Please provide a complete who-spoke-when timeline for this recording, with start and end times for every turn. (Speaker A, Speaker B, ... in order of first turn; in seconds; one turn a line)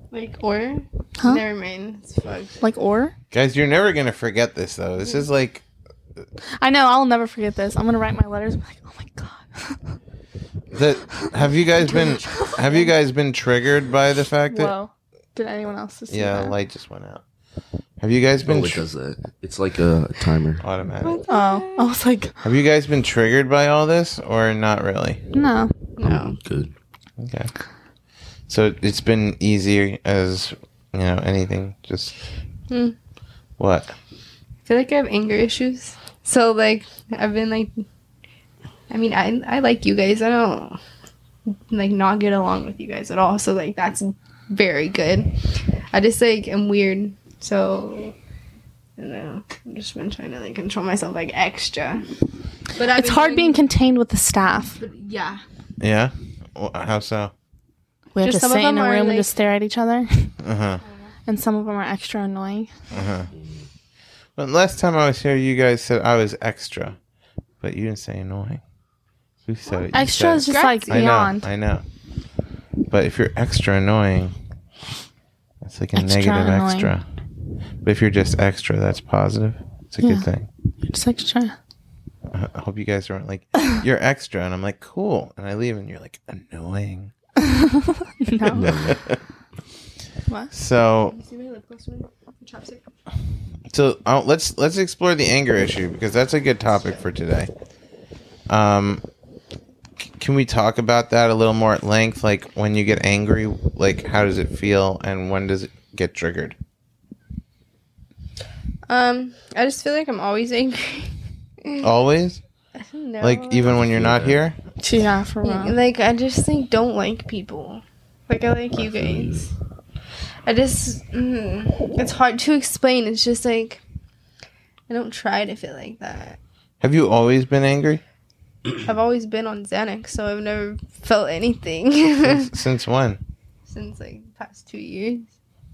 Speaker A: 0.1-2.5
Speaker B: 2.6-3.1
Speaker C: 3.3-5.6
Speaker B: 6.6-9.9
Speaker C: 10.7-14.7
Speaker B: 11.2-12.9
Speaker B: 14.5-16.6
Speaker C: 16.1-17.2
Speaker C: 18.0-18.8
Speaker D: 18.4-20.7
Speaker C: 20.6-21.2
Speaker A: 21.0-21.9
Speaker B: 21.3-22.4
Speaker C: 22.4-25.2
Speaker B: 25.3-25.7
Speaker A: 26.0-26.4
Speaker D: 26.0-26.7
Speaker C: 27.2-27.5
Speaker C: 28.5-32.1
Speaker A: 32.7-33.0
Speaker C: 33.6-33.9
Speaker A: 34.7-37.8
Speaker A: 38.9-40.8
Speaker A: 41.5-45.3
Speaker A: 45.9-48.1
Speaker A: 49.0-52.1
Speaker A: 52.8-53.6
Speaker B: 52.8-54.8
Speaker A: 54.8-55.4
Speaker C: 55.8-57.3
Speaker B: 58.1-60.4
Speaker A: 58.2-59.3
Speaker C: 60.4-60.8
Speaker B: 61.3-62.7
Speaker C: 62.9-63.3
Speaker D: 63.3-63.7
Speaker C: 64.4-67.0
Speaker C: 67.6-68.6
Speaker C: 69.5-71.8
Speaker B: 69.9-71.5
Speaker A: 70.5-71.0
Speaker C: 72.9-74.3
Speaker C: 75.6-77.0
Speaker B: 76.0-76.9
Speaker C: 77.8-80.5
Speaker B: 80.0-80.3
Speaker B: 80.9-81.6
Speaker C: 82.3-87.1
Speaker B: 87.4-88.8
Speaker D: 88.5-89.0
Speaker C: 88.7-89.2
Speaker C: 90.5-91.2
Speaker A: 91.1-92.8
Speaker C: 93.7-97.5
Speaker C: 98.5-99.0
Speaker C: 100.0-106.6
Speaker A: 108.9-111.9
Speaker C: 111.8-112.4
Speaker A: 112.8-113.8
Speaker C: 113.2-114.6
Speaker D: 113.9-114.4
Speaker B: 114.8-115.8
Speaker A: 115.4-119.5
Speaker D: 118.8-119.5
Speaker A: 120.5-123.8
Speaker A: 124.9-126.4
Speaker C: 126.8-128.0
Speaker A: 128.8-132.5
Speaker C: 132.2-133.2
Speaker A: 133.7-135.3